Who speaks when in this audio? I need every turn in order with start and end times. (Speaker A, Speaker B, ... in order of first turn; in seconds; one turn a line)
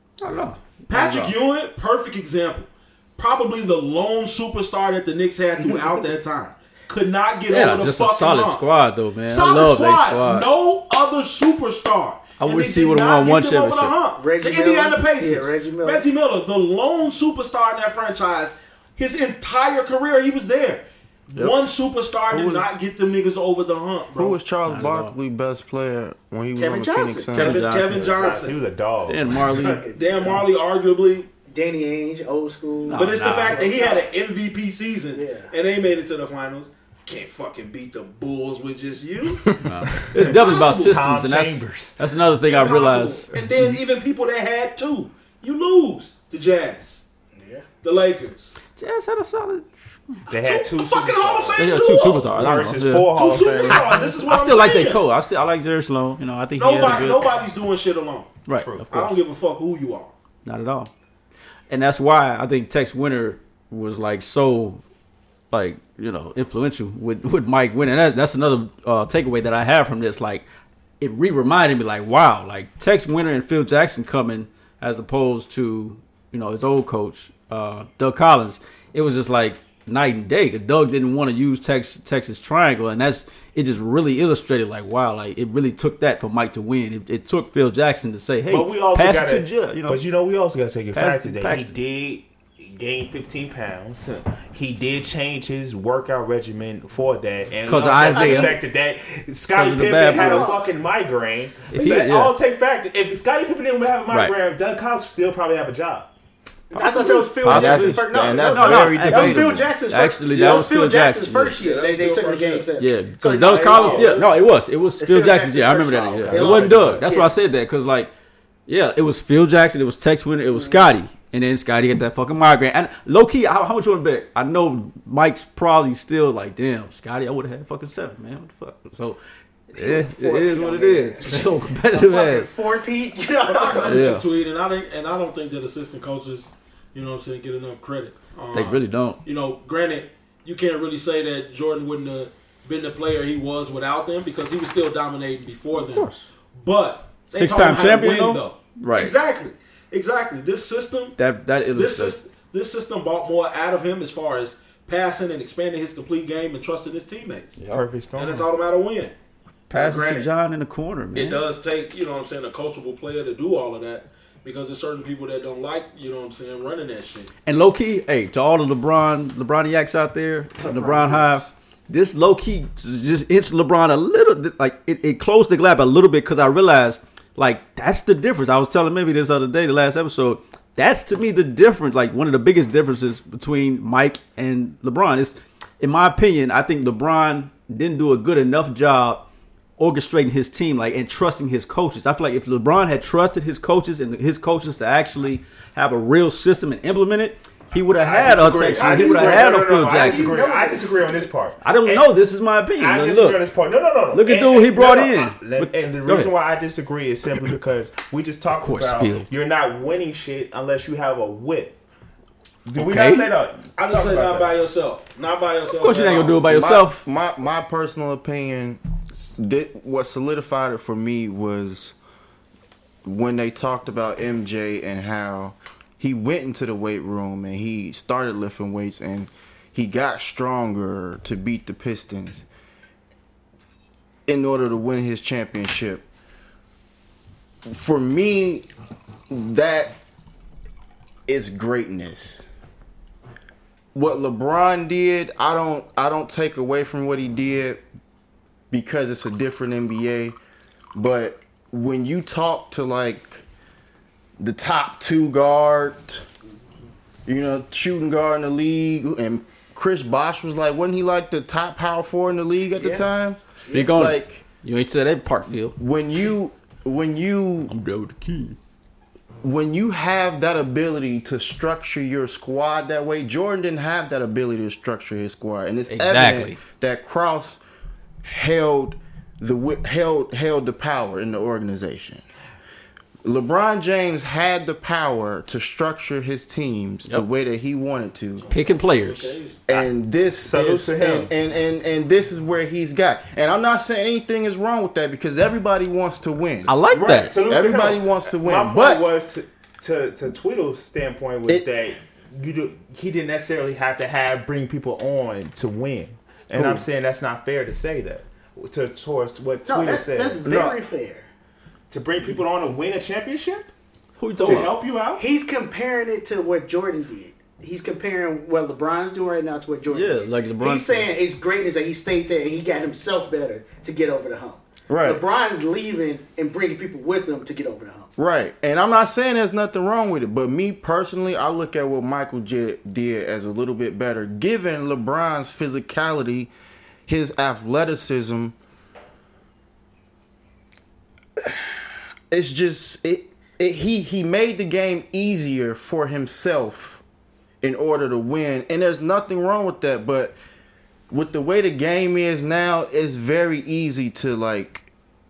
Speaker A: 0.2-1.4
Speaker B: 0.9-8.6
Speaker A: 7.5-10.5
Speaker B: 9.2-24.4
Speaker A: 12.4-13.9
Speaker C: 14.2-16.1
Speaker A: 22.3-22.6
Speaker D: 24.1-27.6
Speaker A: 24.6-25.1
Speaker C: 26.6-27.3
Speaker A: 27.3-28.2
Speaker B: 27.3-28.6
Speaker E: 27.8-29.8
Speaker A: 29.1-29.8
Speaker C: 29.8-30.4
Speaker B: 29.9-31.3
Speaker C: 31.5-34.1
Speaker A: 32.9-33.6
Speaker B: 32.9-41.1
Speaker C: 35.1-35.5
Speaker A: 39.5-43.3
Speaker E: 40.0-42.0
Speaker B: 42.5-47.0
Speaker C: 47.4-47.6
Speaker B: 47.8-48.5
Speaker A: 48.8-49.7
Speaker E: 50.3-51.8
Speaker B: 50.3-55.0
Speaker A: 51.6-53.1
Speaker E: 52.3-54.1
Speaker A: 53.7-57.3
Speaker B: 56.6-60.1
Speaker A: 58.5-59.2
Speaker E: 58.5-58.9
Speaker A: 60.4-60.9
Speaker A: 61.7-64.8
Speaker A: 65.5-70.4
Speaker A: 71.0-90.0
Speaker E: 88.5-106.1
Speaker A: 90.9-91.7
Speaker A: 97.7-98.6
Speaker C: 98.1-98.5
Speaker A: 99.5-100.6
Speaker C: 100.0-100.6
Speaker A: 101.7-102.3
Speaker A: 104.1-104.3
Speaker C: 106.7-114.3
Speaker A: 106.8-111.6
Speaker D: 107.4-109.7
Speaker B: 110.4-110.6
Speaker B: 111.5-112.8
Speaker A: 112.8-118.1
Speaker B: 113.7-114.2
Speaker C: 115.0-117.3
Speaker B: 116.3-116.8
Speaker E: 116.3-117.0
Speaker A: 118.7-129.2
Speaker C: 120.5-120.9
Speaker A: 129.7-132.5
Speaker C: 129.7-134.1
Speaker B: 133.4-151.2
Speaker A: 133.8-134.2
Speaker A: 138.5-139.2
Speaker A: 145.7-146.3
Speaker A: 147.3-149.1
Speaker A: 151.2-152.2
Speaker B: 151.7-157.6
Speaker A: 157.6-157.8
Speaker E: 157.7-158.5
Speaker B: 158.1-159.1
Speaker B: 159.7-160.3
Speaker A: 159.7-161.4
Speaker B: 161.1-167.3
Speaker A: 167.4-189.2
Speaker C: 170.6-171.4
Speaker A: 189.8-200.4
Speaker E: 197.9-202.1
Speaker C: 198.8-201.3
Speaker A: 201.6-203.4
Speaker E: 202.8-211.8
Speaker A: 204.1-206.3
Speaker A: 208.6-209.3
Speaker E: 212.7-214.5
Speaker A: 212.7-213.3
Speaker B: 213.8-216.4
Speaker A: 215.7-216.9
Speaker D: 216.5-221.9
Speaker D: 223.0-232.4
Speaker D: 234.3-236.0
Speaker D: 237.7-238.7
Speaker D: 239.3-240.0
Speaker D: 241.3-242.4
Speaker D: 243.9-247.8
Speaker D: 248.7-250.3
Speaker D: 250.9-253.4
Speaker D: 254.4-256.2
Speaker D: 257.2-264.4
Speaker C: 262.8-263.1
Speaker C: 263.6-263.9
Speaker A: 263.7-265.8
Speaker D: 265.8-267.7
Speaker A: 267.7-268.6
Speaker D: 269.4-277.6
Speaker A: 275.9-276.6
Speaker D: 278.2-282.2
Speaker D: 283.2-288.4
Speaker A: 288.5-289.3
Speaker B: 288.5-289.6
Speaker D: 289.7-296.8
Speaker E: 290.4-291.3
Speaker A: 296.7-297.4
Speaker E: 296.9-310.8
Speaker D: 297.4-299.0
Speaker A: 306.5-306.8
Speaker C: 309.6-311.2
Speaker D: 310.4-310.7
Speaker E: 311.9-313.7
Speaker A: 314.2-314.8
Speaker E: 314.4-315.2
Speaker C: 315.2-328.1
Speaker A: 319.9-321.1
Speaker D: 324.9-325.2
Speaker D: 328.2-336.5
Speaker D: 337.1-338.5
Speaker D: 342.3-347.0
Speaker D: 347.6-350.4
Speaker D: 351.1-354.9